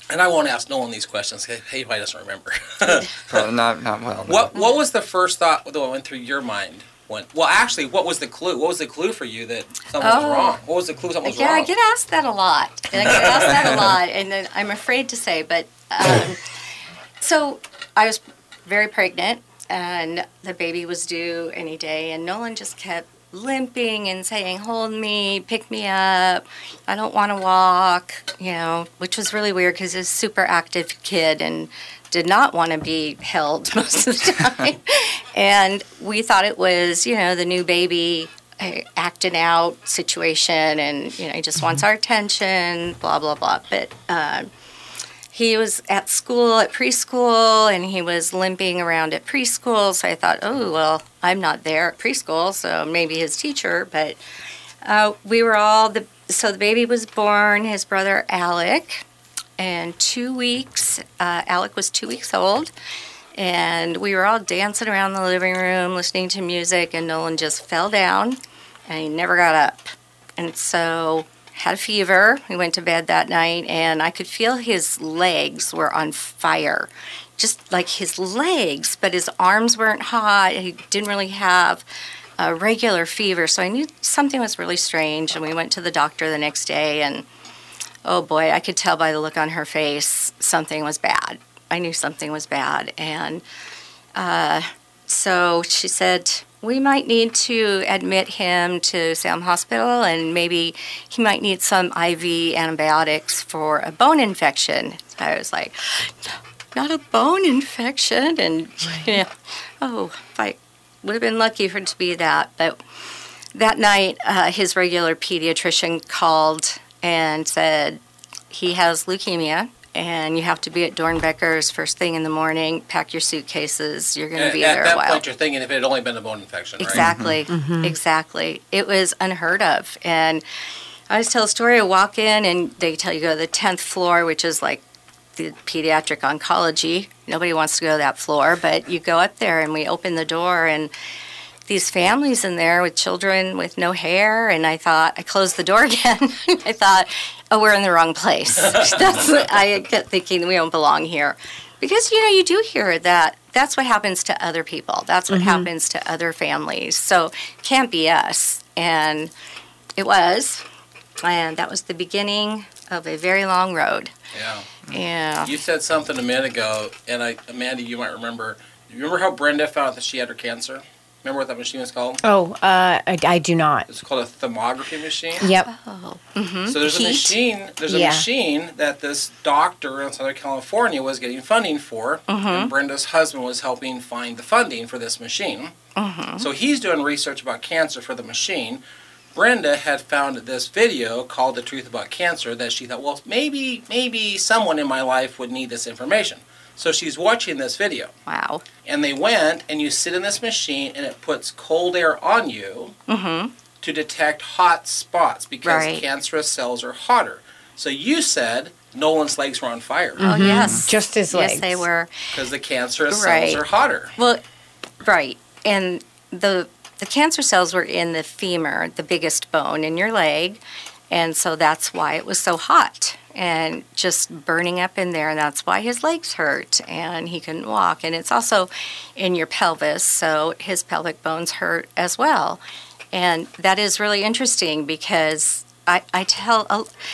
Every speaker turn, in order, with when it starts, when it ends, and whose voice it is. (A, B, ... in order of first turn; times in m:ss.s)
0:00.1-0:03.2 A
0:03.3-0:04.5 B
0:04.3-0:11.7 A
0:10.0-0:10.6 C
0:11.2-0:16.5 C
0:13.0-0:13.7 A
0:17.2-0:44.5 C
0:45.3-0:54.2 C
0:54.8-0:59.0 C
0:59.6-1:02.7 C
1:03.4-1:21.8 C
1:22.4-1:27.3 C
1:28.0-1:33.4 C
1:34.2-1:46.1 C
1:46.7-1:52.8 C
1:53.5-1:58.0 C
1:58.5-2:05.2 C
2:04.4-2:07.1 A
2:06.8-2:10.4 C
2:07.0-2:07.4 B
2:07.5-2:08.0 D
2:11.1-2:14.8 C
2:15.4-2:20.9 C
2:21.7-2:39.3 C
2:35.3-2:35.7 D
2:40.0-2:40.6 C
2:41.2-2:44.1 C
2:44.3-2:44.7 A
2:44.9-2:45.5 C
2:45.4-2:52.2 A
2:52.2-2:53.9 D
2:53.9-2:55.5 A
2:55.4-2:55.7 D
2:55.4-2:57.4 C
2:56.7-3:05.7 A
2:57.9-2:58.2 D
3:02.3-3:02.7 C
3:06.0-3:06.5 C
3:06.4-3:08.8 A
3:09.4-3:18.1 A
3:18.3-3:18.6 C
3:18.8-3:23.0 A
3:23.1-3:23.5 C
3:23.8-3:30.3 A
3:25.6-3:26.0 C
3:30.2-3:31.8 D
3:30.2-3:32.1 C
3:30.6-3:30.9 B
3:32.3-3:34.1 A
3:33.1-3:33.6 C
3:34.2-3:34.4 C
3:35.0-3:52.6 C
3:53.1-3:56.9 C